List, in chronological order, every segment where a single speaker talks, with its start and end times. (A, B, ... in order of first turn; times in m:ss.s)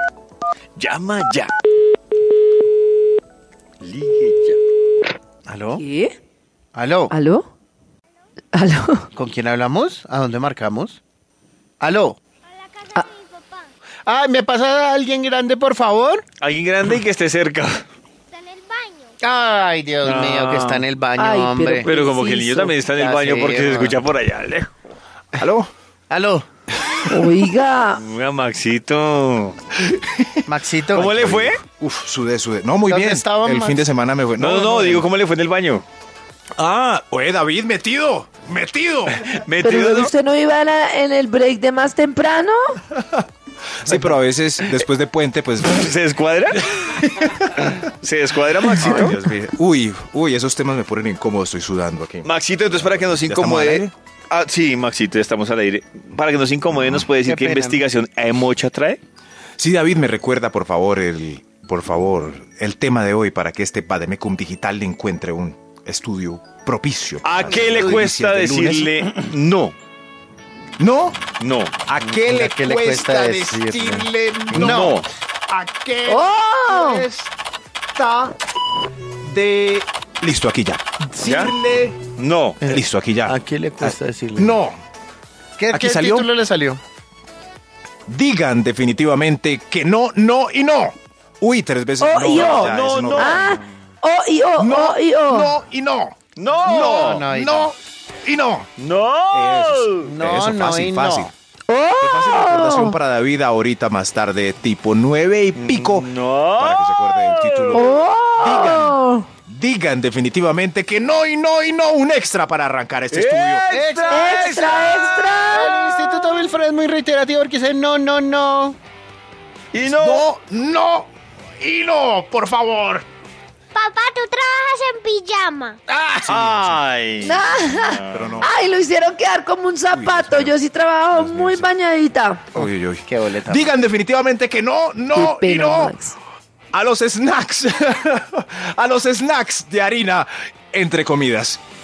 0:00.8-0:01.5 A
0:03.8-0:04.6 A
0:05.5-0:05.8 B
0:05.8-0:06.2 C
0:06.8-0:07.1 B
0:07.1-0:07.5 C
0:08.5-0:09.1 C
0:09.1-0:11.0 B
0:11.8-0:12.2 B
0:14.1-0:16.2 B
0:16.4-0:17.8 A
0:18.5-0:19.0 D
0:19.2-0:21.9 B
0:20.0-0:20.9 A
0:21.2-0:22.8 C
0:21.8-0:24.7 A
0:22.9-0:24.0 B
0:25.3-0:25.7 E
0:26.1-0:26.5 B
0:27.0-0:28.0 C
0:28.0-0:29.6 A
0:29.8-0:30.4 E
0:30.5-0:31.1 B
0:30.9-0:31.6 A
0:31.0-0:35.0 E
0:32.9-0:33.9 B
0:34.4-0:35.8 A
0:36.6-0:39.2 E
0:39.2-0:40.1 A
0:39.6-0:42.8 C
0:43.0-0:43.2 E
0:43.8-0:45.9 E
0:45.7-0:47.0 A
0:47.0-0:47.7 E
0:47.6-0:49.2 A
0:48.7-0:53.9 E
0:52.2-0:59.0 A
0:57.2-0:57.8 B
0:59.6-1:08.9 E
1:07.2-1:09.8 A
1:07.5-1:08.1 B
1:10.8-1:11.2 E
1:11.4-1:11.8 A
1:11.9-1:15.0 E
1:12.0-1:15.0 B
1:14.5-1:15.1 A
1:15.5-1:17.3 E
1:16.1-1:17.1 C
1:18.0-1:18.4 E
1:19.2-1:22.1 E
1:21.2-1:21.5 A
1:22.2-1:22.6 A
1:22.6-1:24.6 B
1:22.7-1:24.8 E
1:25.6-1:26.8 B
1:25.7-1:26.3 E
1:28.1-1:33.6 E
1:32.0-1:35.6 C
1:32.3-1:33.4 A
1:34.6-1:38.7 E
1:36.4-1:37.3 A
1:36.6-1:37.8 B
1:38.8-1:40.1 A
1:39.3-1:41.3 E
1:40.0-1:41.3 B
1:41.7-1:43.0 C
1:42.0-1:53.6 E
1:45.6-1:47.8 A
1:47.7-1:49.3 C
1:53.1-1:56.4 A
1:53.7-1:54.7 B
1:54.1-1:55.8 C
1:55.5-1:58.8 B
1:59.7-2:00.3 A
1:59.9-2:03.0 E
2:03.8-2:05.8 D
2:05.9-2:08.4 A
2:06.2-2:06.8 E
2:07.2-2:12.4 C
2:08.1-2:08.5 E
2:09.9-2:10.6 E
2:11.1-2:11.7 E
2:12.6-2:13.8 B
2:12.6-2:16.0 E
2:15.2-2:16.1 C
2:16.7-2:21.6 E